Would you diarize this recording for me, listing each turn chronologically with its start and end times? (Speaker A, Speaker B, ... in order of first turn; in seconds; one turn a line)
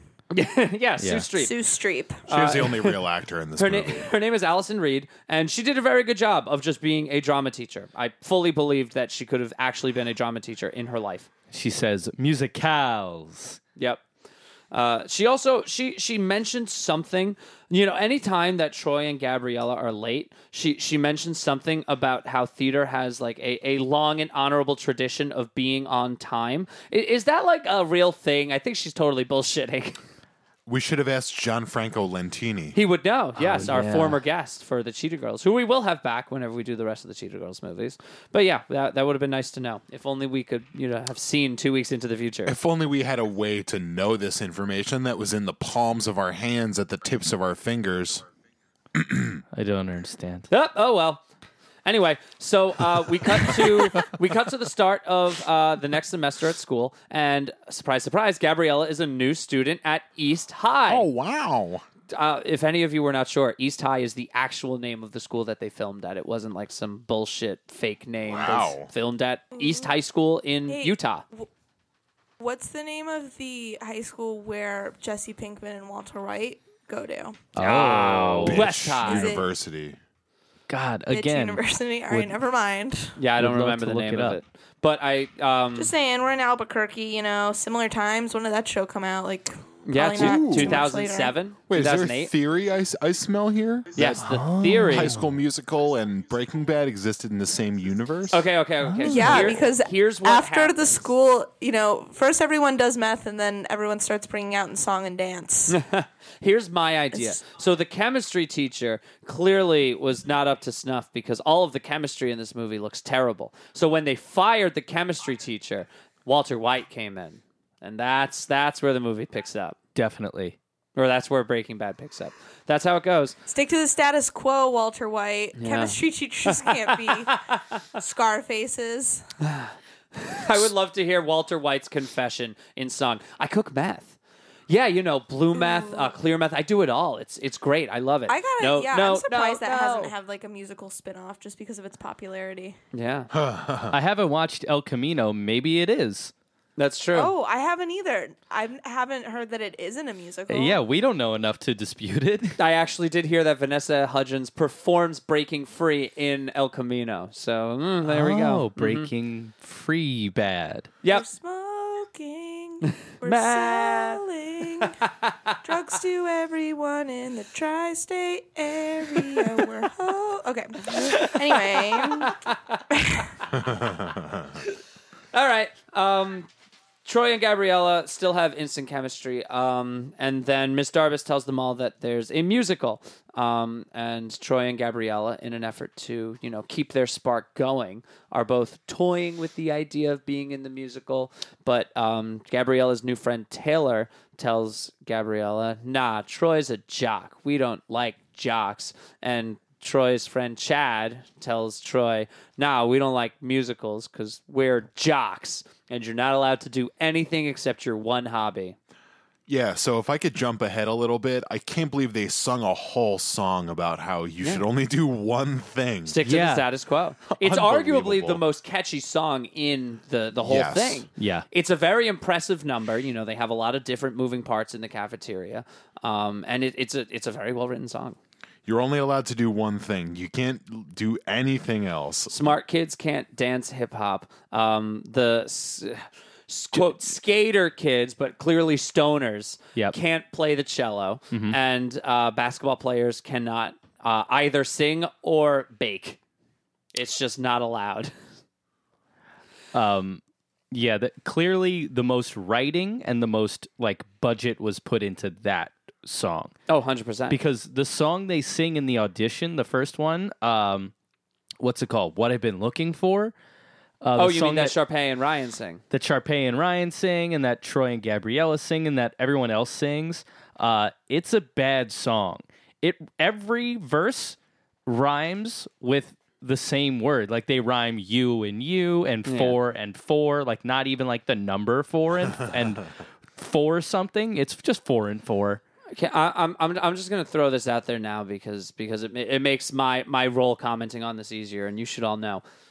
Speaker A: 0.3-1.6
Speaker B: 1.0-1.3
Speaker C: 1.4-2.2
Speaker A: 2.3-3.0
Speaker D: 2.3-4.1
Speaker A: 3.6-11.3
Speaker B: 11.5-13.6
Speaker A: 13.8-14.0
Speaker A: 14.7-30.0
Speaker D: 30.7-32.8
Speaker A: 32.7-42.5
Speaker B: 33.4-34.2
Speaker D: 42.5-48.2
Speaker D: 49.0-49.4
Speaker B: 49.5-50.5
Speaker A: 50.5-51.2
Speaker A: 51.9-61.1
Speaker D: 60.9-61.8
Speaker A: 62.1-71.2
Speaker D: 68.3-68.9
Speaker C: 69.6-69.9
Speaker C: 70.7-71.5
Speaker C: 72.4-77.4
Speaker B: 77.5-78.7
Speaker A: 77.6-79.3
Speaker D: 78.4-80.0
Speaker C: 79.0-79.5
Speaker B: 80.7-82.4
Speaker C: 81.1-83.2
Speaker A: 83.2-85.9
Speaker B: 83.4-84.4
Speaker C: 85.8-91.3
Speaker A: 89.8-92.3
Speaker D: 90.2-90.9
Speaker D: 91.7-94.2
Speaker A: 94.0-95.1
Speaker B: 94.2-95.3
Speaker D: 94.9-98.5
Speaker A: 98.3-101.1
Speaker B: 98.9-99.5
Speaker C: 99.1-105.8
Speaker D: 99.2-99.5
Speaker A: 105.7-119.8
Speaker C: 107.1-107.4
Speaker B: 120.0-120.6
Speaker A: 121.0-123.4
Speaker C: 123.5-127.4
Speaker A: 125.6-127.8
Speaker C: 128.0-129.2
Speaker A: 129.4-134.2
Speaker A: 134.7-140.1
Speaker C: 135.5-136.1
Speaker C: 138.3-142.8
Speaker A: 142.9-143.3
Speaker D: 143.3-144.0
Speaker B: 143.9-146.3
Speaker A: 146.8-147.3
Speaker C: 147.1-150.8
Speaker B: 150.5-152.6
Speaker A: 152.6-159.1
Speaker B: 158.1-160.9
Speaker C: 161.1-165.0
Speaker A: 163.2-164.2
Speaker A: 164.8-165.6
Speaker C: 165.6-173.3
Speaker A: 170.9-172.8
Speaker D: 173.6-174.5
Speaker A: 175.3-176.5
Speaker A: 177.1-208.8
Speaker D: 209.5-216.2
Speaker A: 216.1-228.2
Speaker B: 216.2-216.7
Speaker D: 217.3-218.4
Speaker D: 220.4-221.1
Speaker B: 221.2-221.4
Speaker D: 228.7-232.5
Speaker A: 232.3-246.2
Speaker A: 246.9-248.1
Speaker B: 249.7-256.5
Speaker A: 256.7-257.4
Speaker B: 257.3-260.9
Speaker B: 261.6-263.3
Speaker B: 264.0-264.7
Speaker A: 264.2-265.8
Speaker B: 265.9-274.4
Speaker B: 274.9-285.6
Speaker A: 279.3-279.6
Speaker A: 285.9-292.4